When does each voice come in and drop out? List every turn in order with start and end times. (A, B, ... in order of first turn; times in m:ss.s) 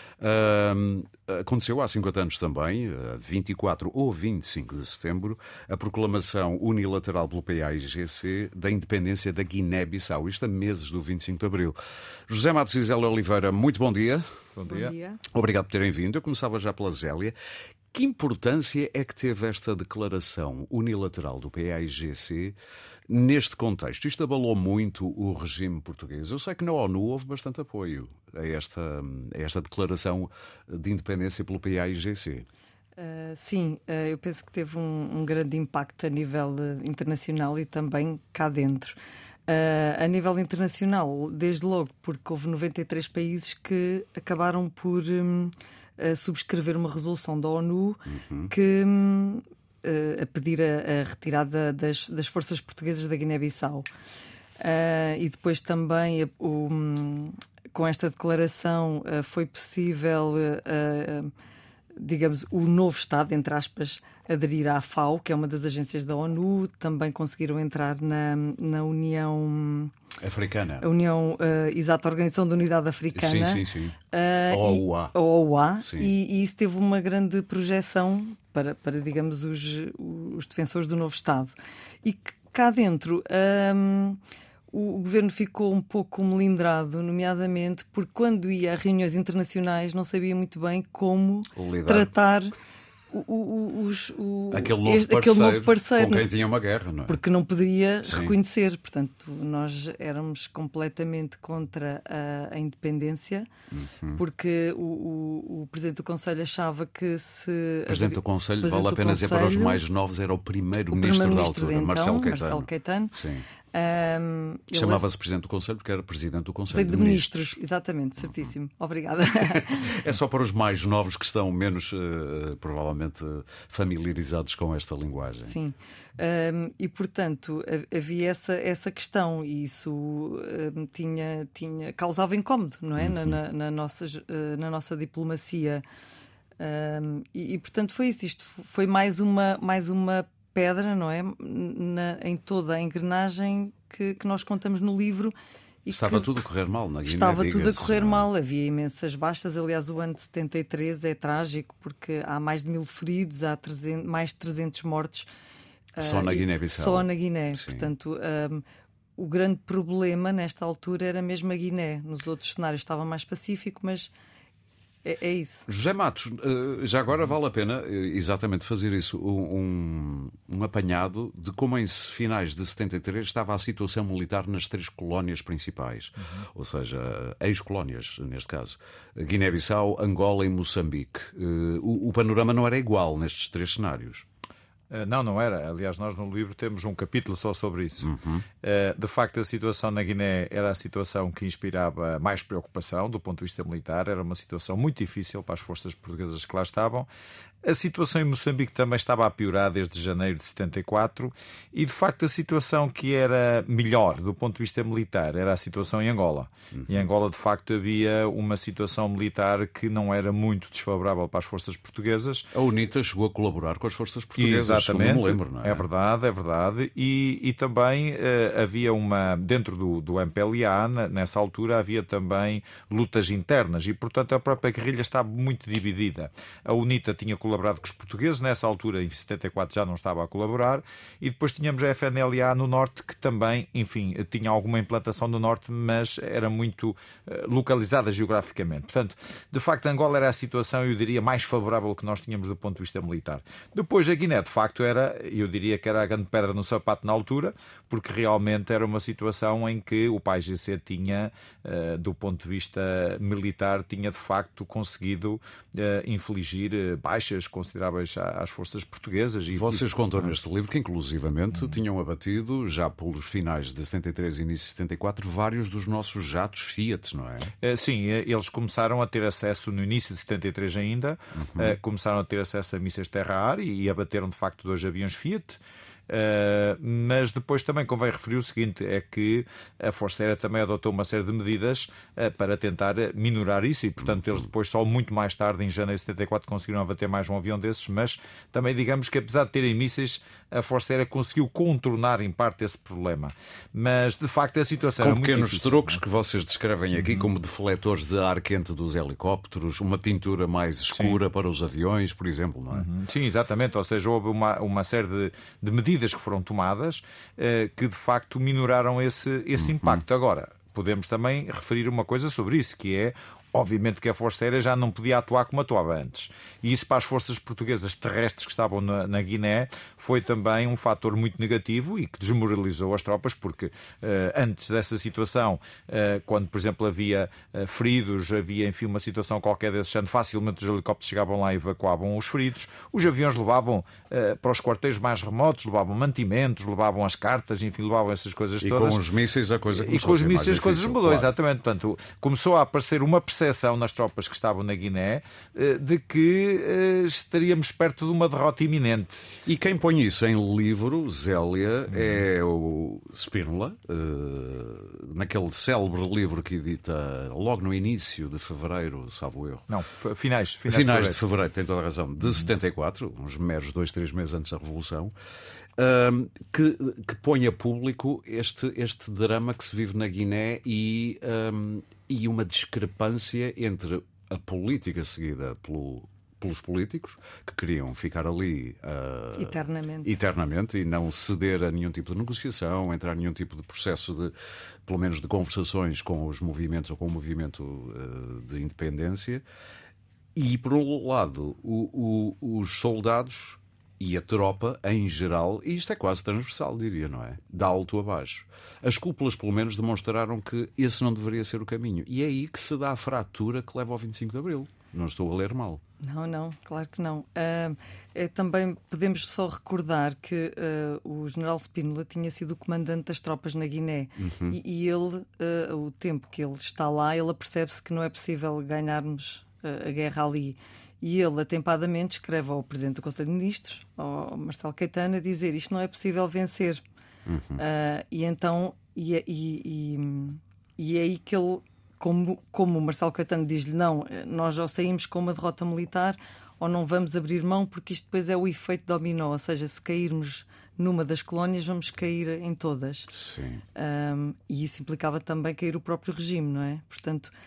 0:00.2-0:11.8 A
0:12.3-0:14.2 A
0:14.6-0:14.9 B
0:14.7-0:15.2 C
0:15.3-0:17.4 A
0:17.9-0:22.6 A
0:23.1-0:32.5 A
0:33.0-0:39.0 C
0:39.5-0:53.9 C
0:48.1-0:48.5 A
0:54.6-1:01.3 C
1:02.0-1:09.9 C
1:10.2-1:10.9 A
1:10.8-1:24.2 C
1:13.2-1:14.0 A
1:14.5-1:15.2 A
1:15.8-1:16.1 A
1:24.7-1:32.5 C
1:31.5-1:32.1 A
1:33.1-1:36.3 C
1:34.5-1:37.2 A
1:37.1-1:43.5 C
1:38.0-1:38.4 A
1:43.7-1:44.2 A
1:44.2-1:49.8 C
1:47.9-1:53.5 A
1:50.9-1:53.1 C
1:53.7-1:55.0 C
1:54.7-1:57.6 A
1:56.7-2:00.0 C
1:59.4-2:05.6 A
2:05.4-2:15.8 C
2:13.0-2:13.3 A
2:16.6-2:25.3 C
2:25.8-2:26.4 C
2:25.9-2:28.3 A
2:27.0-2:35.3 C
2:36.0-2:37.9 A
2:36.0-2:38.6 C
2:39.2-2:44.1 C
2:45.0-2:45.7 C
2:45.7-3:04.2 A
3:04.9-3:17.1 B
3:08.0-3:08.4 A
3:17.6-3:32.5 B
3:32.5-3:35.9 A
3:34.4-4:20.4 B
4:19.5-4:27.5 A
4:27.6-4:56.0 B
4:31.4-4:31.8 A
4:55.0-5:02.9 A
4:57.0-4:57.3 B
5:00.9-5:01.2 B
5:02.7-5:39.0 B
5:09.6-5:10.0 A
5:38.6-5:41.3 A
5:39.7-5:49.3 B
5:49.4-5:59.7 A
5:51.9-5:52.2 B
5:59.7-6:01.2 B
6:00.7-6:05.1 A
6:05.8-6:24.3 A
6:19.4-6:20.1 C
6:24.9-6:29.4 A
6:30.4-6:45.8 A
6:46.0-7:06.8 C
6:54.2-6:54.6 A
7:07.3-7:07.6 A
7:07.6-7:23.1 C
7:23.1-7:23.6 A
7:23.8-7:27.3 C